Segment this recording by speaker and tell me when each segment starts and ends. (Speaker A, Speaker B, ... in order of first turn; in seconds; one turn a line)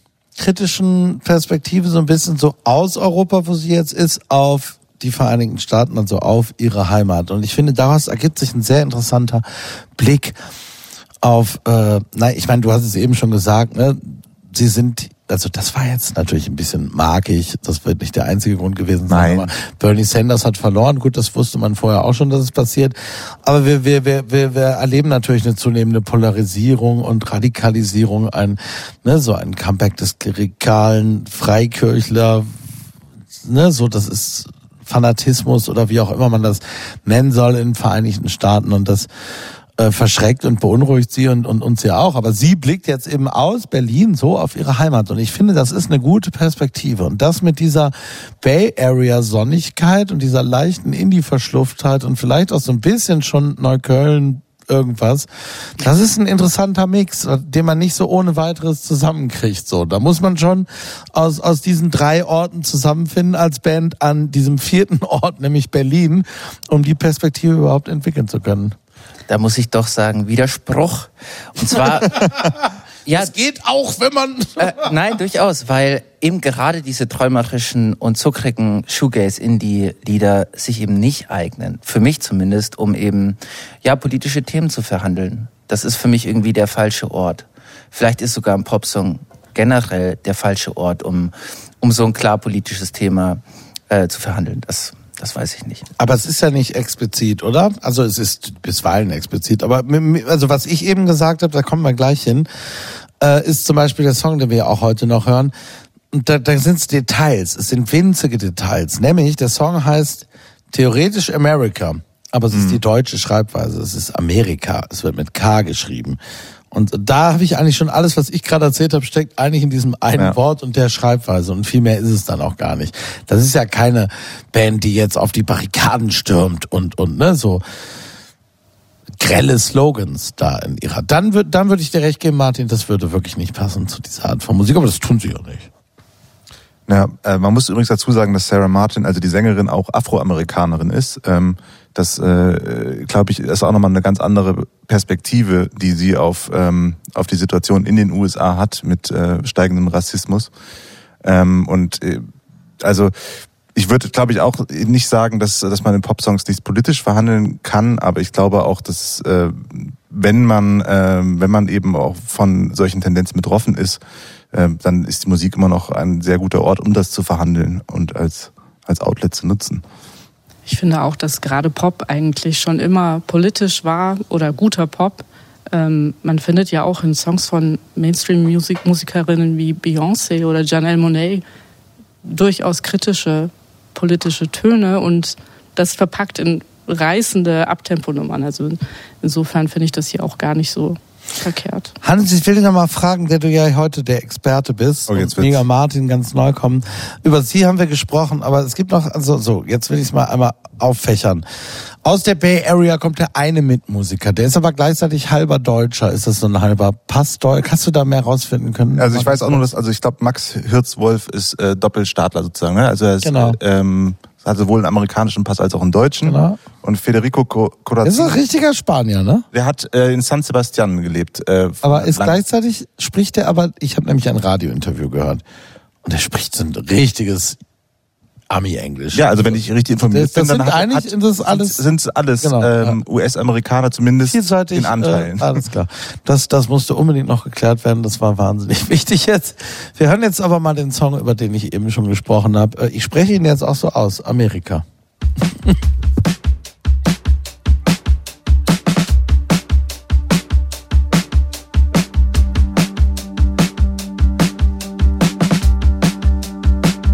Speaker A: 0.4-9.4
Speaker A: 9.9-10.4
Speaker A: 11.2-32.5
Speaker B: 19.1-19.5
Speaker A: 33.4-39.1
Speaker A: 39.8-68.7
Speaker C: 69.3-72.2
Speaker A: 71.6-74.9
Speaker C: 73.0-73.3
Speaker C: 74.6-95.8
Speaker A: 96.0-105.5
Speaker A: 106.1-116.2
Speaker B: 112.5-112.8
Speaker A: 116.7-127.6
Speaker A: 129.2-135.7
Speaker B: 136.9-150.5
Speaker B: 151.2-152.2
Speaker B: 152.8-153.1
Speaker B: 153.7-164.0
Speaker B: 164.5-169.8
Speaker D: 170.7-181.4
Speaker D: 182.2-191.9
Speaker A: 192.0-201.4
Speaker B: 195.1-195.6
Speaker A: 202.0-209.6
Speaker B: 209.0-218.4
Speaker A: 213.2-213.6
Speaker A: 216.2-216.6
Speaker A: 218.0-219.4
Speaker B: 219.5-222.4
Speaker A: 221.8-225.4
Speaker A: 226.0-227.6
Speaker A: 228.5-229.6
Speaker B: 229.1-235.6
Speaker A: 230.1-231.8
Speaker A: 232.4-233.0
Speaker A: 234.2-244.8